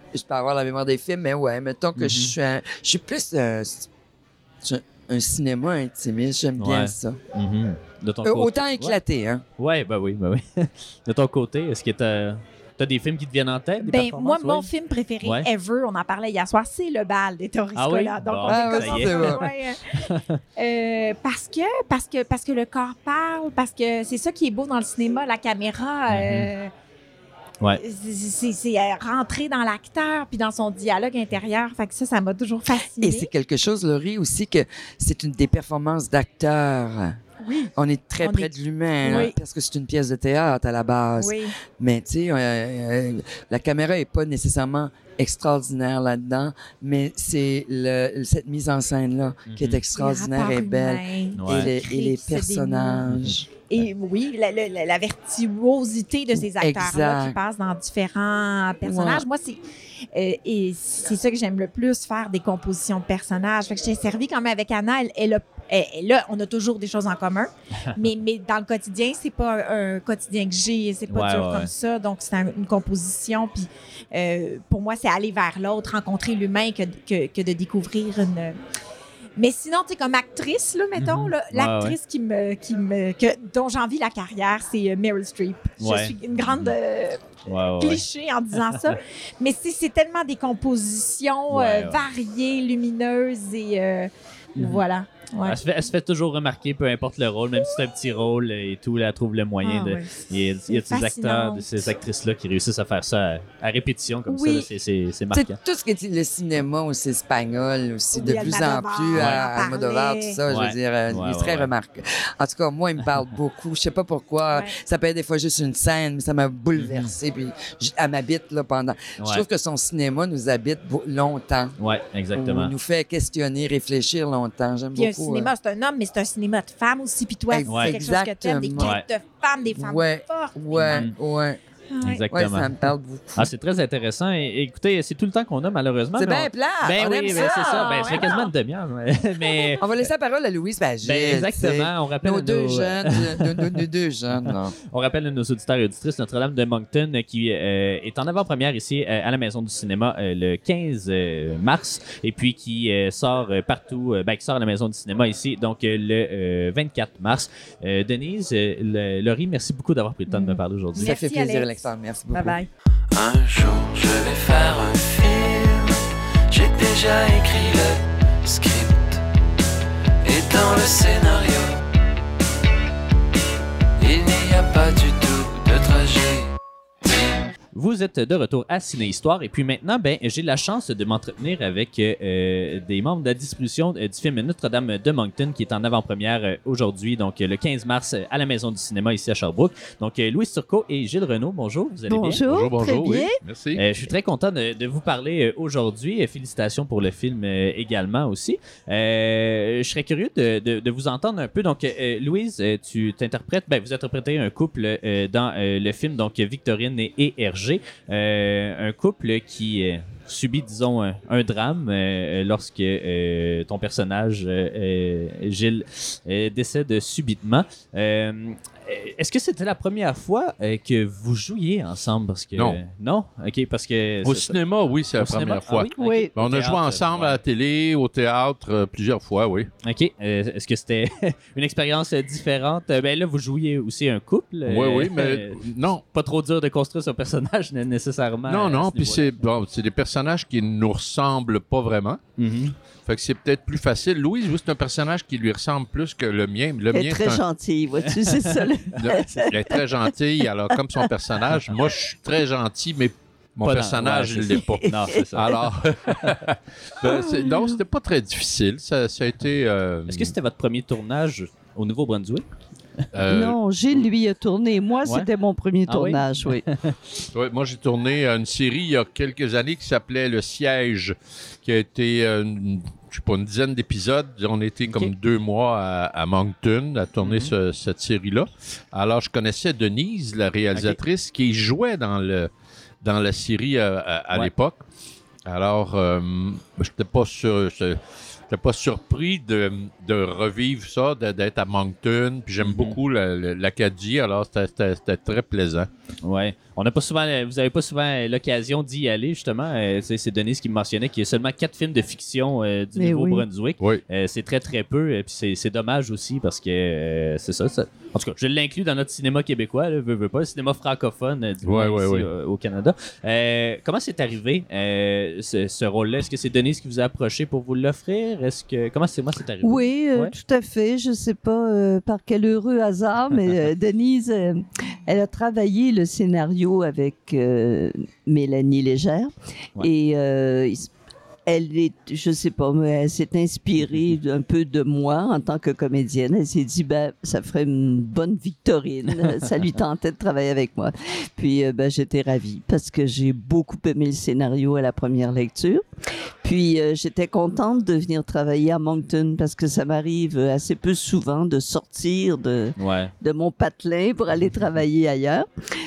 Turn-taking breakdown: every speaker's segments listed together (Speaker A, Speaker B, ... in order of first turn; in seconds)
Speaker A: 0.1-3.9, 4.6-7.2, 8.2-9.4, 18.5-19.4, 33.0-37.2, 37.8-53.5, 56.4-57.4, 58.8-59.3, 105.3-121.8, 122.3-125.5, 127.5-129.0, 129.8-131.6, 132.3-133.5, 136.2-138.3, 139.8-144.7, 161.0-162.6
Speaker B: 2.0-2.3, 6.6-9.0, 9.6-14.7, 17.8-19.5, 20.1-20.4, 26.1-26.5, 49.5-49.8, 51.4-51.7, 71.1-71.7, 81.0-82.0, 85.8-86.7, 87.5-88.0, 88.6-88.9, 91.5-92.0, 94.6-94.8, 95.4-105.5, 109.2-109.4, 110.5-111.7, 116.8-117.1, 121.8-122.7, 127.7-128.0, 130.9-131.1, 132.0-132.7, 133.4-140.1, 141.0-143.8, 144.4-161.1, 177.7-192.4, 193.8-224.6, 225.2-227.4, 229.8-235.6, 236.1-239.3, 242.4-242.8, 248.1-248.7, 253.6-255.6, 260.1-262.5, 265.9-267.0, 277.2-277.5, 280.7-281.0, 292.6-293.0, 296.2-320.3, 352.8-353.1
Speaker C: 13.8-19.8, 20.6-26.7, 27.8-33.3, 37.4-38.5, 39.0-39.4, 41.2-41.5, 50.0-53.1, 53.7-59.6, 60.1-78.6, 79.4-87.2, 87.8-95.6, 99.6-101.9, 104.3-104.7, 108.2-110.4, 125.0-131.1, 131.9-132.2, 137.3-138.5, 139.4-139.7, 160.3-162.7
Speaker D: 163.1-169.2, 170.2-171.8, 174.0-177.5
Speaker E: 192.1-193.4, 225.9-226.3, 246.9-250.1, 250.7-251.1, 254.6-255.2, 257.1-257.8, 263.3-266.6, 303.0-303.4, 319.6-330.9, 331.5-345.9, 346.4-355.5
Speaker F: 192.4-193.8, 224.2-229.7, 234.7-236.0, 238.5-242.2, 243.1-247.4, 249.0-260.3, 263.1-263.6, 267.3-282.5, 283.0-284.8, 285.5-288.0, 288.5-295.9, 311.6-312.3